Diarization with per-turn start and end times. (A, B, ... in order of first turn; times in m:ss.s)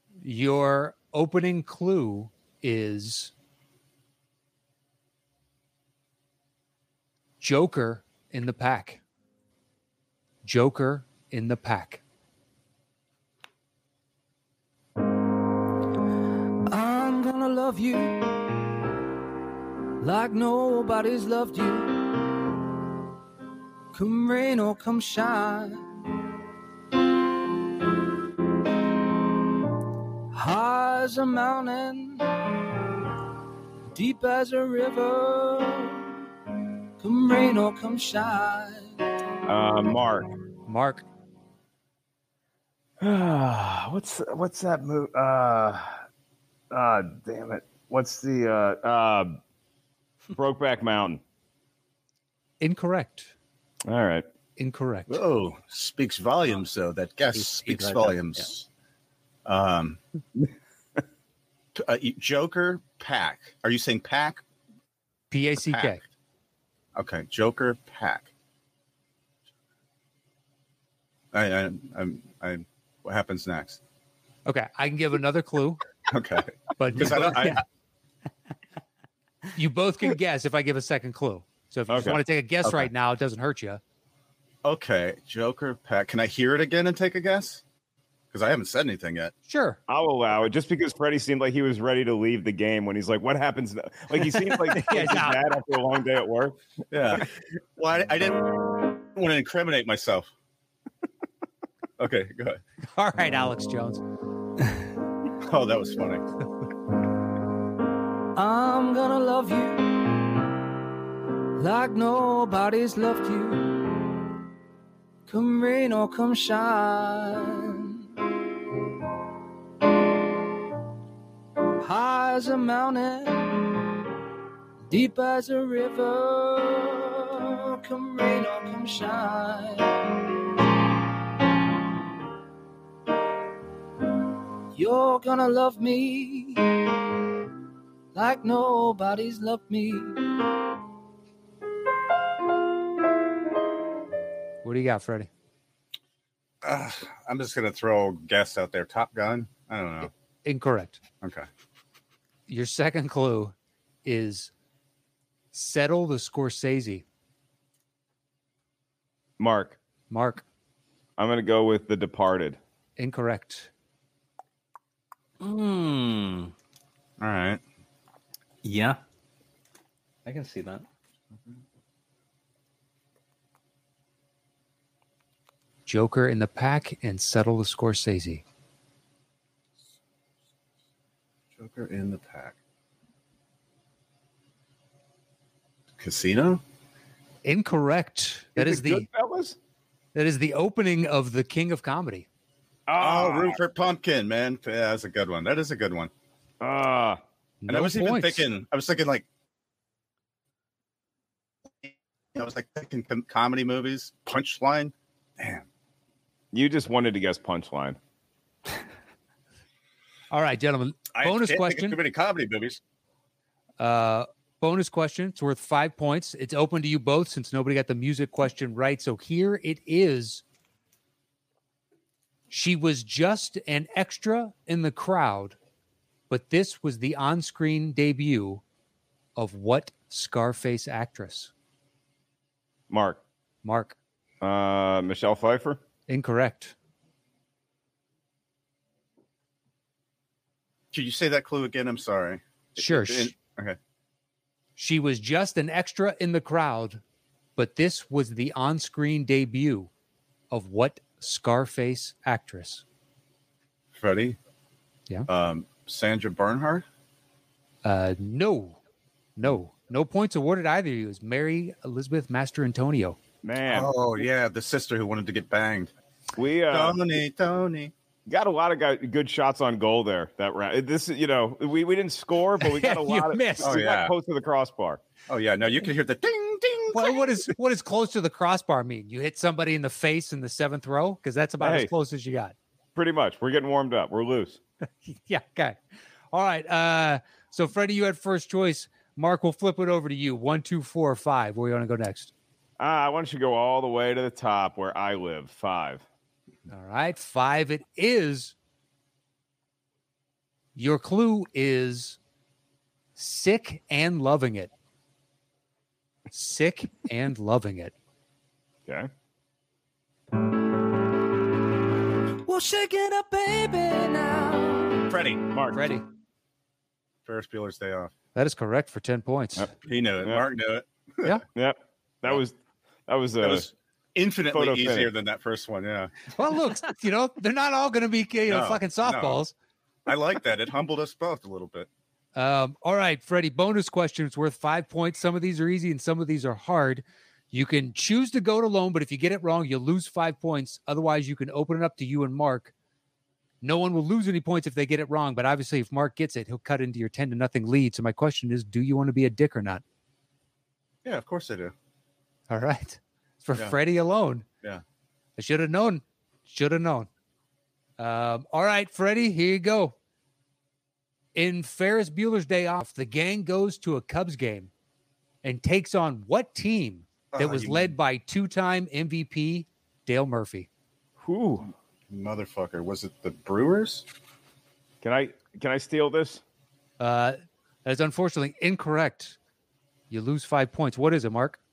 0:00.2-0:03.3 A
0:07.4-0:09.0 A
0:10.4-0:12.0 A
0:16.7-0:18.6 B
0:20.0-0:21.9 B
0:23.9-0:25.8 B
0:30.3-0:32.6 B
0:33.9-0:36.1 B
0:37.0-0:39.0 B
0:39.4-0:40.3 C
0:40.7-0:41.0 A
0:43.0-0:46.0 C
0:46.7-0:49.4 C
0:50.3-0:51.2 C
0:52.6-0:53.3 A
0:53.8-0:54.2 C
0:54.6-0:55.2 A
0:55.1-0:58.7 D
0:57.4-0:58.2 E
0:59.4-1:00.0 D
1:01.7-1:04.4 D
1:05.3-1:06.0 A
1:05.7-1:06.0 D
1:07.0-1:08.3 D
1:11.3-1:13.8 D
1:14.4-1:15.8 A
1:16.1-1:17.6 D
1:16.8-1:17.6 A
1:19.5-1:23.8 A
1:21.9-1:22.2 C
1:24.6-1:27.6 D
1:28.3-1:29.3 D
1:29.5-1:29.8 A
1:29.9-1:36.6 C
1:34.7-1:35.4 A
1:36.9-1:40.3 D
1:42.0-1:42.6 D
1:42.9-1:44.0 A
1:45.4-1:46.2 D
1:48.3-1:50.4 B
1:51.6-1:54.1 B
1:55.3-1:58.0 B
2:01.8-2:03.8 B
2:04.9-2:10.3 B
2:14.7-2:17.1 B
2:18.1-2:20.4 B
2:24.6-2:25.3 A
2:26.6-2:30.1 D
2:30.4-2:31.0 A
2:31.2-2:31.5 D
2:32.5-2:34.5 A
2:35.5-2:37.0 A
2:39.4-2:39.8 C
2:40.1-2:40.4 A
2:41.2-2:42.6 C
2:43.0-2:43.7 A
2:45.4-2:46.5 E
2:47.2-2:47.6 D
2:48.6-2:49.0 E
2:50.2-2:50.8 E
2:55.8-2:58.4 A
3:01.6-3:02.6 D
3:06.0-3:06.6 D
3:07.4-3:09.0 A
3:08.6-3:09.6 C
3:10.1-3:12.3 A
3:12.9-3:13.6 C
3:13.0-3:16.1 D
3:16.6-3:17.2 C
3:17.6-3:18.4 A
3:17.7-3:19.2 D
3:21.8-3:25.6 D
3:26.5-3:28.0 C
3:30.3-3:32.0 A
3:31.1-3:32.8 D
3:33.8-3:40.4 A
3:42.5-3:45.6 A
3:46.3-3:48.6 A
3:49.4-3:51.5 A
3:52.9-3:53.2 C
3:53.6-3:54.0 A
3:54.4-3:55.8 C
3:56.1-3:56.7 A
4:00.9-4:03.8 D
4:02.8-4:03.3 A
4:04.8-4:07.0 A
4:07.6-4:09.9 A
4:10.5-4:12.8 A
4:13.9-4:14.4 D
4:15.3-4:16.8 D
4:17.8-4:18.8 A
4:19.4-4:23.2 A
4:23.4-4:23.9 C
4:23.7-4:25.9 D
4:26.4-4:27.0 C
4:26.7-4:27.9 D
4:28.3-4:35.0 C
4:32.6-4:33.7 A
4:33.6-4:34.1 D
4:35.3-4:37.4 D
4:36.9-4:42.5 A
4:41.6-4:41.9 C
4:43.0-4:44.6 C
4:45.0-4:45.8 A
4:46.3-4:52.3 A
4:52.8-4:56.0 C
4:56.7-4:58.5 A
5:00.7-5:02.2 A
5:03.2-5:04.7 A
5:06.3-5:07.9 A
5:12.4-5:15.1 B
5:15.1-5:15.4 D
5:15.5-5:15.9 C
5:15.7-5:16.0 A
5:17.2-5:18.1 D
5:18.3-5:19.7 A
5:19.8-5:21.3 D
5:21.5-5:22.5 C
5:23.1-5:23.6 C
5:23.4-5:26.1 D
5:24.5-5:25.1 C
5:26.3-5:29.5 A
5:28.5-5:29.4 D
5:30.0-5:31.9 D
5:32.3-5:42.7 A
5:43.6-5:49.8 A
5:51.0-5:51.7 D
5:52.5-5:54.4 A
5:55.4-5:57.1 A
5:58.0-5:59.9 A
6:01.3-6:04.7 A
6:05.4-6:10.7 A
6:07.3-6:08.0 D
6:11.2-6:11.7 C
6:12.1-6:14.0 D
6:15.0-6:16.4 C
6:17.0-6:19.4 A
6:20.1-6:21.6 A